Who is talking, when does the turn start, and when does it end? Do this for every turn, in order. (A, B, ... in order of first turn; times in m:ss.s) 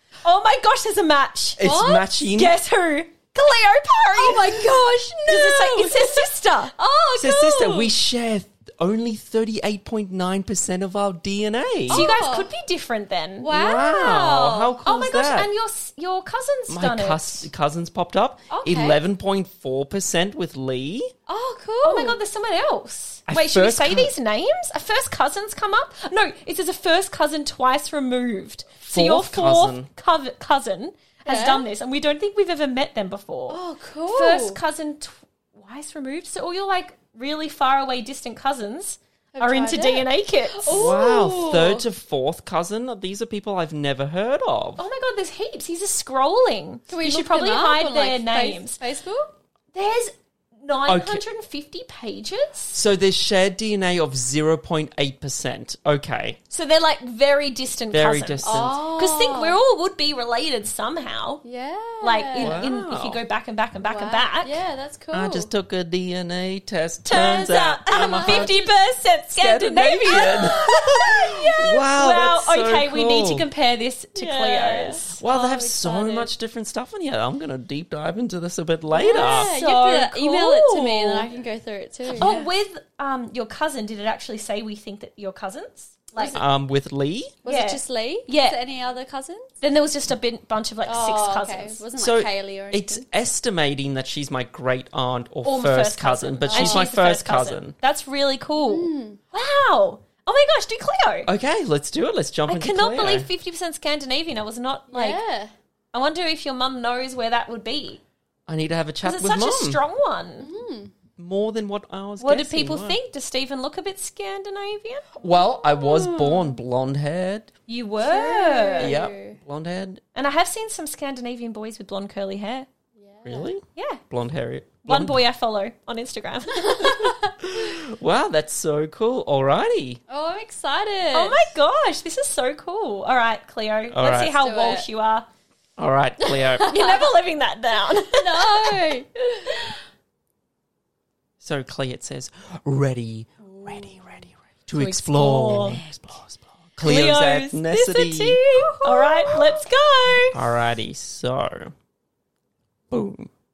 0:00.2-0:01.7 A
0:01.6-0:02.5 B
0:01.6-0:02.1 C
0:02.2-0:04.7 A
0:04.1-0:07.9 C
0:05.3-0:06.7 A
0:07.2-0:12.1 B
0:11.9-0:12.5 C
0:11.9-0:13.5 A
0:13.4-0:14.8 C
0:13.5-0:15.5 B
0:14.8-0:17.5 A
0:16.7-0:21.1 B
0:18.5-0:19.0 C
0:21.3-0:22.2 C
0:21.8-0:40.9 A
0:23.3-0:24.1 B
0:28.8-0:29.9 B
0:31.2-0:31.6 C
0:33.5-0:34.6 C
0:39.3-0:41.8 C
0:40.7-0:44.8 B
0:44.8-0:48.8 A
0:46.9-0:49.3 C
0:49.7-0:52.8 A
0:50.9-0:51.2 B
0:52.7-0:56.4 B
0:56.5-1:01.4 A
0:57.9-0:58.8 B
0:58.4-0:59.6 C
1:01.4-1:02.6 C
1:02.0-1:04.6 A
1:02.4-1:03.2 B
1:03.8-1:05.5 C
1:05.1-1:08.7 B
1:07.1-1:15.2 A
1:08.0-1:08.5 C
1:09.3-1:13.4 B
1:10.1-1:10.6 C
1:14.1-1:16.3 C
1:15.2-1:19.5 B
1:18.9-1:22.5 C
1:19.0-1:21.3 A
1:22.2-1:26.4 A
1:26.2-1:26.4 C
1:26.3-1:27.3 B
1:27.4-1:29.5 C
1:27.4-1:28.6 A
1:29.6-1:31.8 A
1:30.8-1:33.0 C
1:32.0-1:37.7 B
1:35.4-1:41.3 A
1:36.5-1:36.9 C
1:38.6-1:39.2 C
1:41.2-1:43.3 B
1:42.4-1:45.2 A
1:44.9-1:45.5 C
1:45.9-1:48.0 A
1:48.5-1:49.8 B
1:49.0-1:50.5 A
1:50.4-1:50.9 C
1:51.2-1:53.0 B
1:52.2-1:55.1 A
1:55.2-1:57.5 B
1:55.6-1:56.6 C
1:57.7-1:58.9 A
1:58.0-1:59.4 C
1:58.8-2:00.0 B
2:00.1-2:02.7 A
2:03.0-2:03.5 C
2:03.2-2:05.2 B
2:03.7-2:04.0 A
2:04.8-2:07.2 A
2:06.8-2:07.1 C
2:07.4-2:10.0 B
2:10.1-2:11.5 C
2:11.1-2:15.2 A
2:13.9-2:14.3 B
2:14.3-2:14.8 C
2:15.8-2:16.7 B
2:16.2-2:17.1 C
2:16.6-2:18.8 A
2:18.0-2:19.8 C
2:21.4-2:28.8 B
2:23.4-2:24.2 C
2:24.7-2:25.8 A
2:26.8-2:30.4 A
2:30.3-2:31.7 B
2:32.9-2:33.3 B